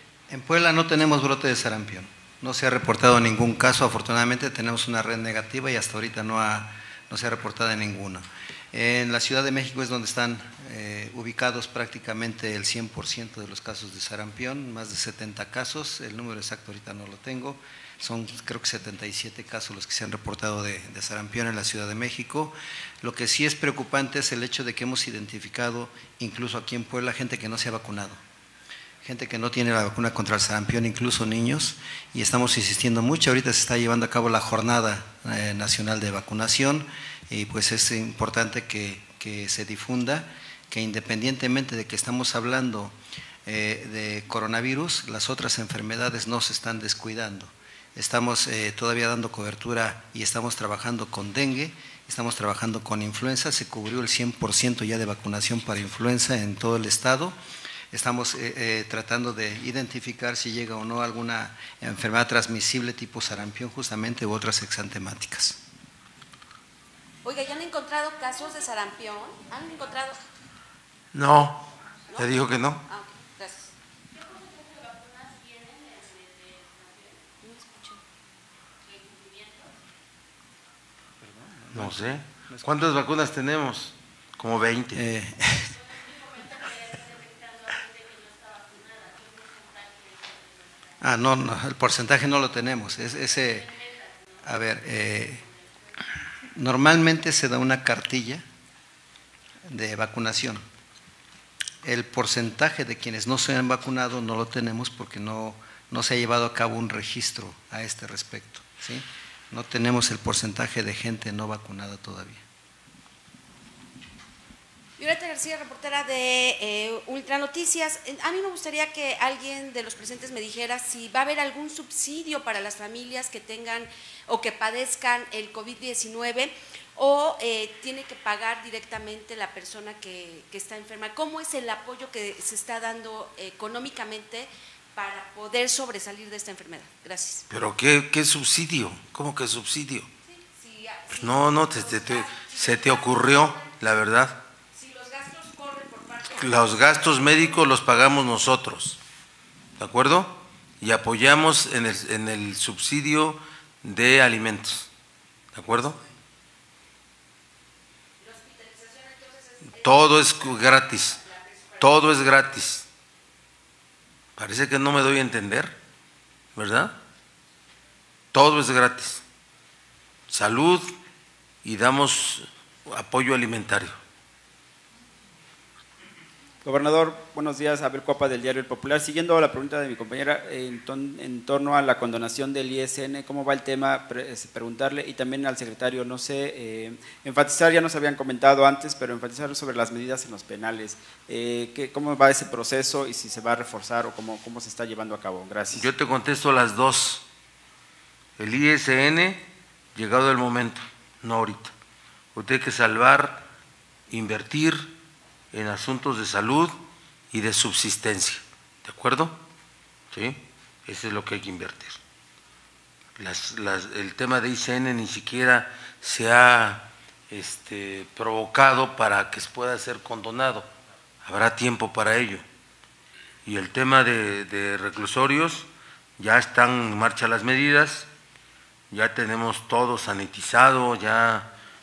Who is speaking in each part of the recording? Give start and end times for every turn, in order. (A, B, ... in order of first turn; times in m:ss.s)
0:00.3-0:28.2 A
0:29.0-0:57.4 A
0:57.9-1:05.6 A
1:07.2-1:10.2 B
1:11.1-1:12.8 C
1:12.9-1:13.7 B
1:17.4-1:18.0 B
1:21.7-1:25.0 C
1:24.9-1:25.7 A
1:31.0-1:33.7 A
1:34.4-1:35.4 A
1:36.5-1:38.4 A
1:39.6-1:40.6 A
1:41.8-1:52.4 A
1:55.0-2:17.4 B
2:17.5-2:20.1 C
2:20.2-2:23.8 B
2:21.2-2:24.4 C
2:24.7-2:26.9 B
2:26.3-2:29.0 C
2:29.8-2:34.9 C
2:35.5-2:36.0 C
2:38.2-2:42.1 B
2:39.8-2:41.2 C
2:41.8-2:42.8 C
2:44.4-2:45.8 C
2:46.6-2:47.0 C
2:48.3-2:49.2 C
2:50.3-2:50.9 C
2:51.6-2:54.0 C
2:56.6-3:15.9 D
3:15.7-3:17.2 C
3:18.4-3:21.7 C
3:22.4-3:23.5 C
3:24.1-3:24.9 C
3:25.5-3:26.8 C
3:27.3-3:29.4 C
3:30.1-3:32.0 C
3:33.2-3:40.7 C
3:41.2-3:42.4 C
3:43.4-3:45.7 C
3:46.2-3:48.1 C
3:48.9-3:51.5 C